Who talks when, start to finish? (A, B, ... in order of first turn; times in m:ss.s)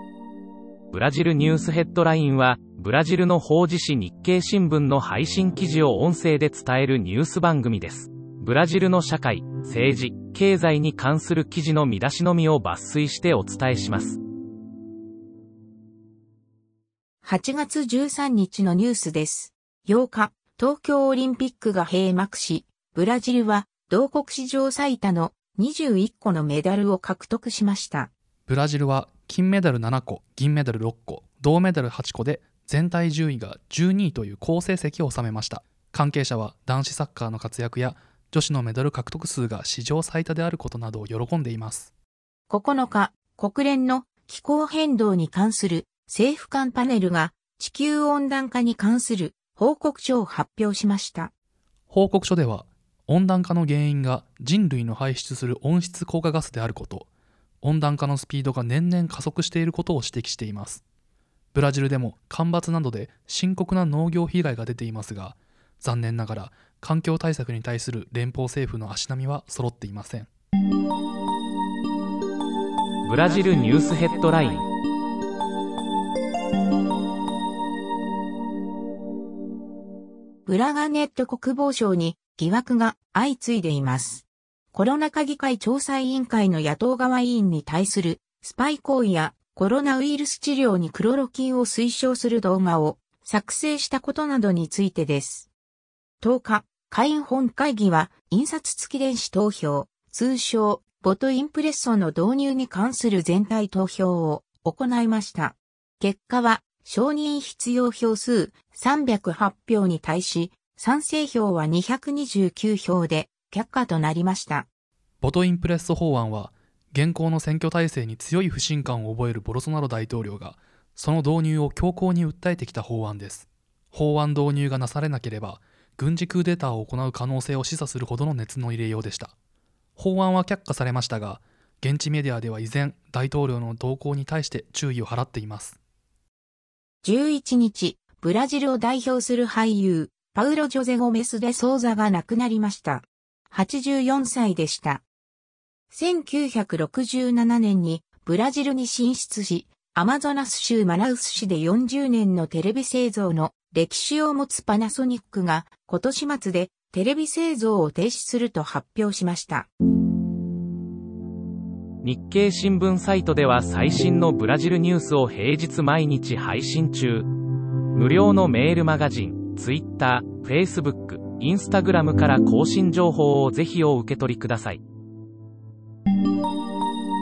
0:00.9-0:14.2 A
0:17.2-0:28.1 B
0:28.5-0:41.9 C
0:42.5-0:51.3 B
0:51.9-0:57.1 C
0:57.6-1:00.8 C
1:01.5-1:10.3 C
1:13.0-1:14.6 A
1:20.4-1:35.5 B
1:36.2-1:54.7 B
1:55.2-2:09.3 C
2:10.0-2:15.8 C
2:17.0-2:25.0 B
2:25.9-2:39.7 B
2:42.0-2:47.3 A
2:47.9-2:54.8 A